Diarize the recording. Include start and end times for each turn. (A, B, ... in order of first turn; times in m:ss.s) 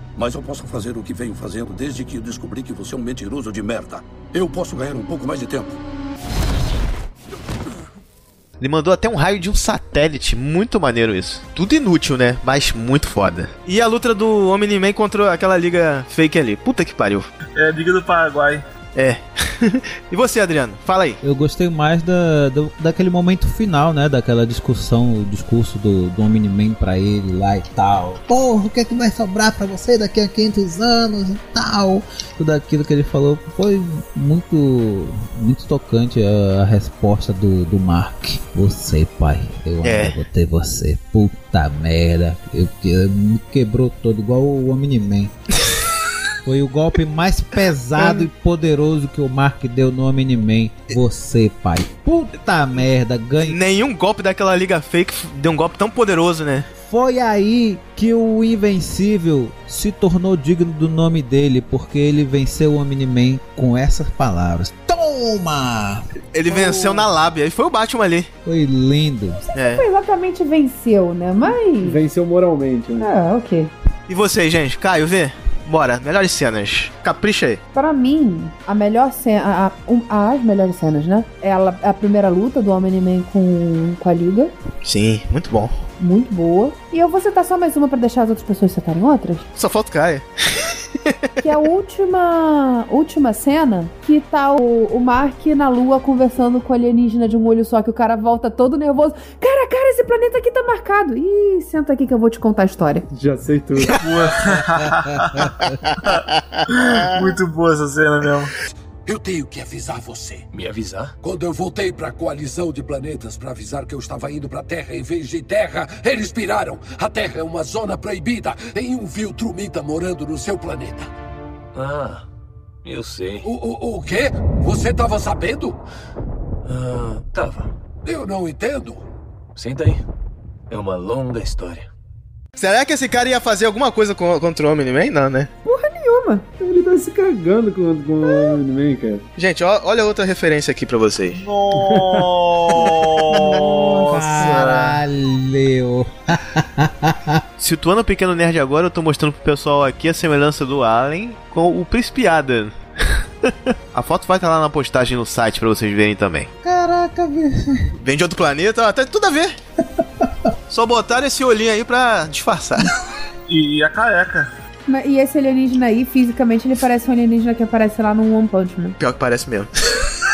0:00.2-0:05.8 A
0:08.6-0:17.3 B
0:17.6-0:18.6 C
0:18.9-0:21.2 B
0:21.2-0:45.3 D
0:39.8-0:40.2 B
0:46.4-0:53.6 D
0:48.0-0:48.2 B
0:53.4-0:56.7 B
0:56.8-1:06.1 D
1:06.3-1:08.3 B
1:06.5-1:06.8 E
1:08.4-1:09.4 D
1:09.5-1:09.8 B
1:09.6-1:12.0 E
1:11.8-1:13.1 F
1:13.0-1:13.7 E
1:14.1-1:17.6 B
1:17.7-1:24.5 E
1:24.8-1:25.8 B
1:26.0-1:29.4 E
1:29.6-1:31.2 B
1:31.4-1:43.1 E
1:43.1-1:44.1 F
1:44.0-1:48.5 C
1:45.3-1:45.7 D
1:49.0-1:50.4 A
1:51.2-2:01.1 A
2:01.8-2:02.2 G
2:02.9-2:03.4 G
2:03.4-2:05.8 A
2:06.6-2:07.7 G
2:08.0-2:09.0 A
2:09.6-2:10.0 G
2:10.7-2:11.8 G
2:12.6-2:15.5 B
2:15.6-2:16.5 E
2:16.6-2:19.2 F
2:18.2-2:18.6 E
2:19.4-2:21.4 B
2:21.3-2:24.6 C
2:21.7-2:23.0 F
2:23.5-2:27.4 D
2:24.4-2:25.0 B
2:27.6-2:36.5 B
2:36.6-2:37.9 D
2:38.0-2:39.6 B
2:40.7-2:42.9 B
2:43.5-2:44.5 C
2:44.9-2:49.0 E
2:49.0-2:49.7 B